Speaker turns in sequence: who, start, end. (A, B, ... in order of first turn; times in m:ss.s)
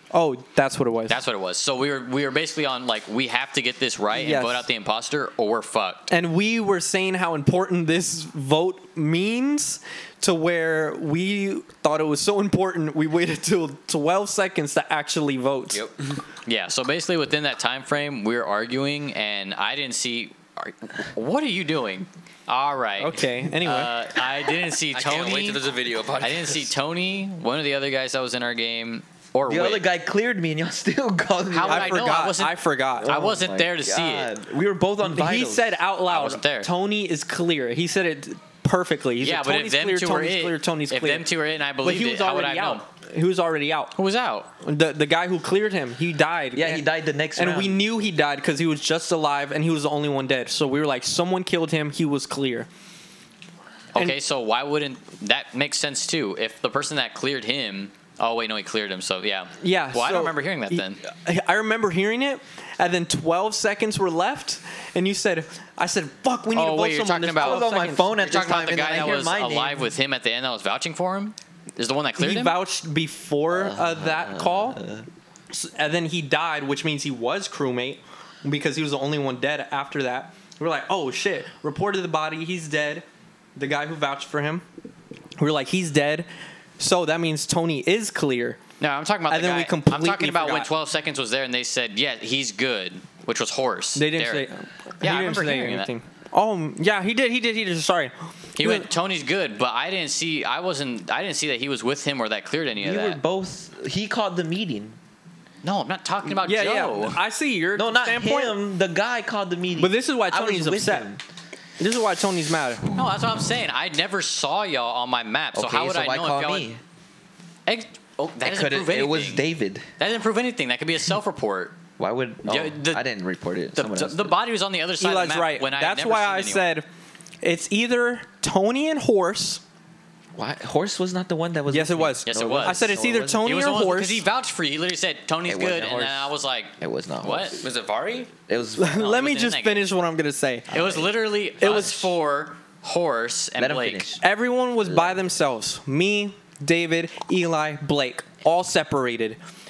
0:00.1-0:01.2 A
0:01.1-0:06.1 B
0:04.1-0:04.7 A
0:06.1-0:15.8 A
0:15.7-0:16.2 C
0:16.4-0:25.6 B
0:23.0-0:24.0 A
0:24.9-0:26.7 C
0:26.2-0:29.9 B
0:29.5-0:32.2 D
0:31.5-0:34.3 B
0:31.6-0:33.2 A
0:33.0-0:35.8 D
0:35.0-0:41.3 A
0:36.1-0:36.7 B
0:39.2-0:42.8 B
0:41.8-0:44.0 A
0:44.0-0:44.5 B
0:44.6-0:52.7 A
0:46.5-0:47.8 D
0:53.9-1:01.0 B
0:59.6-1:08.0 A
1:06.5-1:12.6 B
1:07.4-1:09.9 D
1:12.2-1:14.8 A
1:13.5-1:15.1 D
1:15.5-1:23.0 A
1:23.6-1:24.6 A
1:25.4-1:26.3 A
1:26.8-1:28.6 A
1:28.8-1:34.5 B
1:29.3-1:30.7 A
1:34.0-1:38.9 A
1:35.0-1:35.9 B
1:38.6-1:43.2 B
1:42.8-1:45.0 D
1:45.6-1:47.2 B
1:46.3-1:48.6 A
1:47.8-1:51.2 D
1:49.8-1:51.1 A
1:51.8-1:52.9 A
1:53.0-1:56.7 B
1:55.5-1:56.8 D
1:57.7-1:59.5 B
1:58.4-1:59.9 D
2:00.0-2:01.8 B
2:02.0-2:04.4 D
2:02.4-2:03.0 B
2:03.8-2:06.7 B
2:05.0-2:06.9 A
2:07.4-2:09.6 A
2:10.4-2:13.5 D
2:11.7-2:14.2 A
2:12.3-2:17.6 B
2:15.5-2:17.6 D
2:17.6-2:18.3 C
2:18.5-2:19.1 D
2:18.8-2:20.7 A
2:18.9-2:19.9 B
2:20.7-2:22.0 D
2:20.7-2:24.1 B
2:23.6-2:24.2 D
2:24.2-2:29.4 A
2:24.8-2:25.3 D